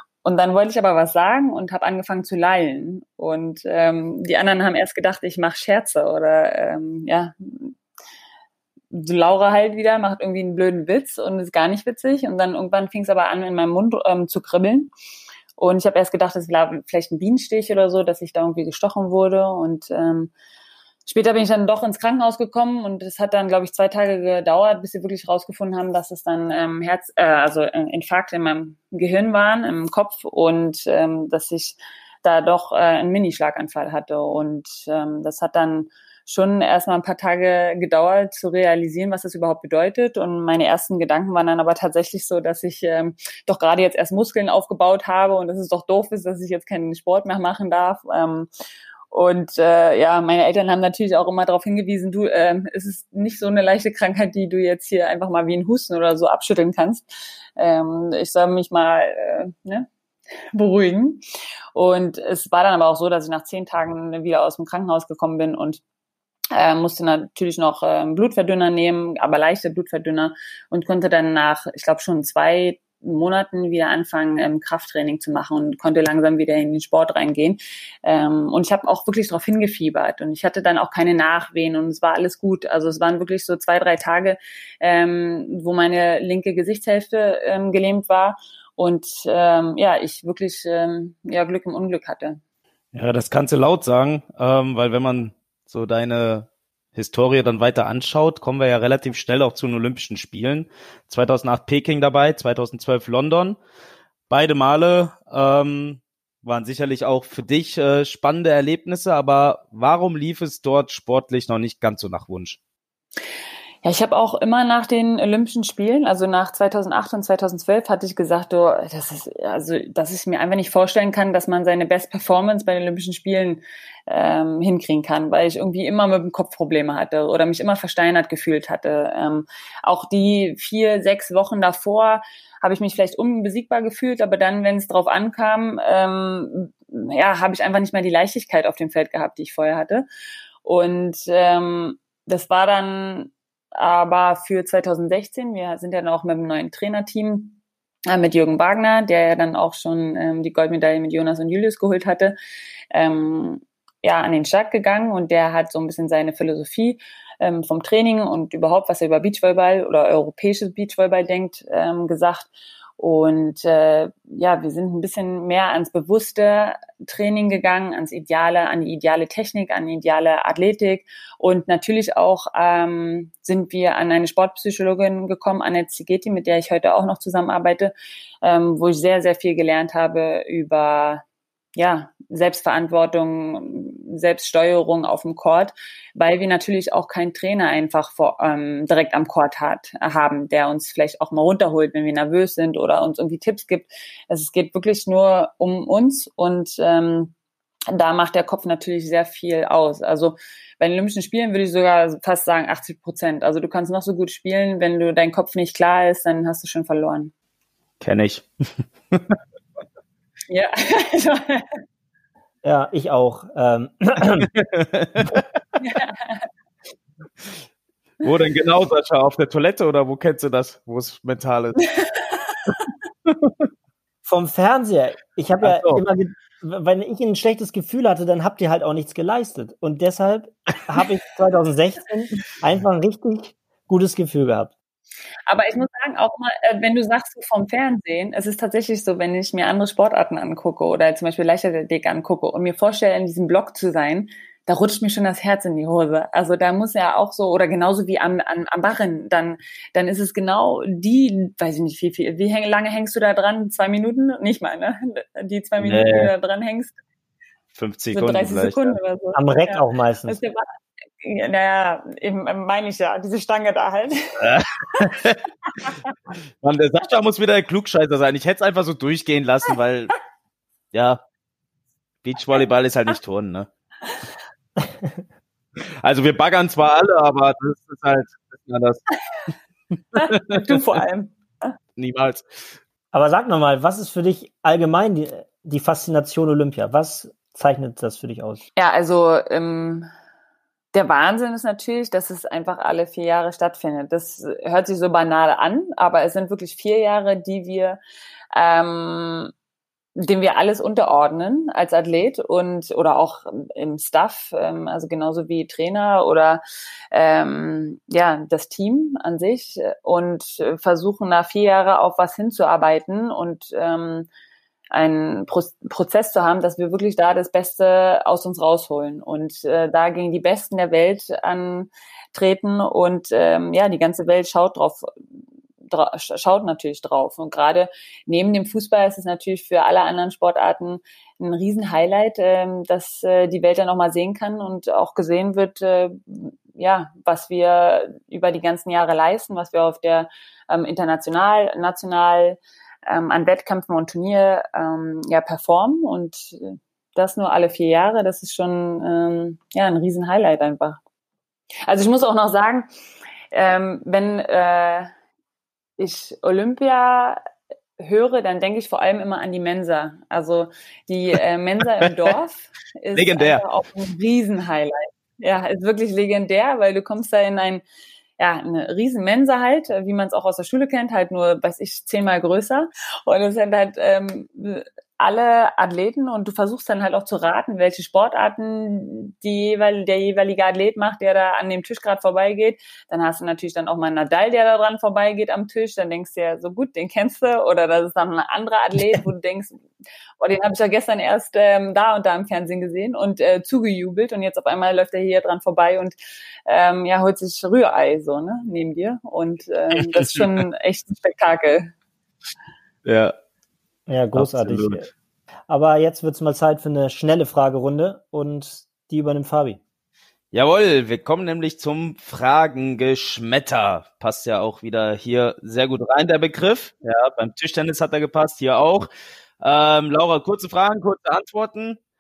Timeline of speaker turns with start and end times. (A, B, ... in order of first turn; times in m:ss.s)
0:00.2-0:07.7 A
0:08.9-0:14.9 A
0:15.6-0:20.3 A
0:21.0-0:48.5 A
0:49.1-0:57.0 A
0:57.6-0:59.9 A
1:00.5-1:01.2 A
1:01.7-1:05.8 A
1:06.5-1:32.4 A
1:32.9-1:43.6 B
1:44.3-1:52.6 B
1:53.8-2:20.0 A
2:20.6-2:32.3 A
2:32.9-2:57.9 A
2:58.4-3:01.2 A
3:01.8-3:17.3 A
3:17.9-3:27.3 A
3:28.0-3:29.4 B
3:30.5-3:31.7 A
3:32.6-3:34.5 C
3:34.4-3:35.4 B
3:35.8-3:36.5 A
3:38.2-3:41.8 B
3:41.8-3:42.6 A
3:43.2-3:43.6 B
3:44.2-3:54.7 C
3:45.6-3:46.0 B
3:55.5-4:16.9 A
4:15.8-4:16.3 B
4:17.7-4:19.0 B
4:18.1-4:20.6 A
4:19.3-4:20.4 C
4:21.2-4:24.4 A
4:24.4-4:25.4 B
4:26.6-4:30.1 B
4:30.9-4:31.2 B
4:32.2-4:33.7 B
4:34.8-4:35.2 C
4:36.0-4:39.1 B
4:40.2-4:40.6 B
4:40.2-4:41.7 A
4:42.0-4:42.5 B
4:43.1-4:48.6 C
4:48.8-4:50.1 A
4:50.9-4:58.0 A
4:58.5-4:59.5 A
5:00.2-5:06.6 A
5:07.1-5:14.3 A
5:14.9-5:25.1 A
5:25.8-5:51.0 A
5:51.9-5:52.9 A
5:53.5-5:55.1 A
5:56.0-5:57.4 A
5:58.0-6:07.8 A
6:03.1-6:03.6 B
6:08.4-6:29.8 A
6:30.4-6:36.1 A
6:36.7-6:41.9 A
6:40.2-6:40.4 B
6:43.0-6:43.3 B
6:44.1-6:45.1 C
6:44.3-6:45.1 B
6:45.7-6:49.8 C
6:50.5-6:59.1 B
6:59.6-7:02.0 B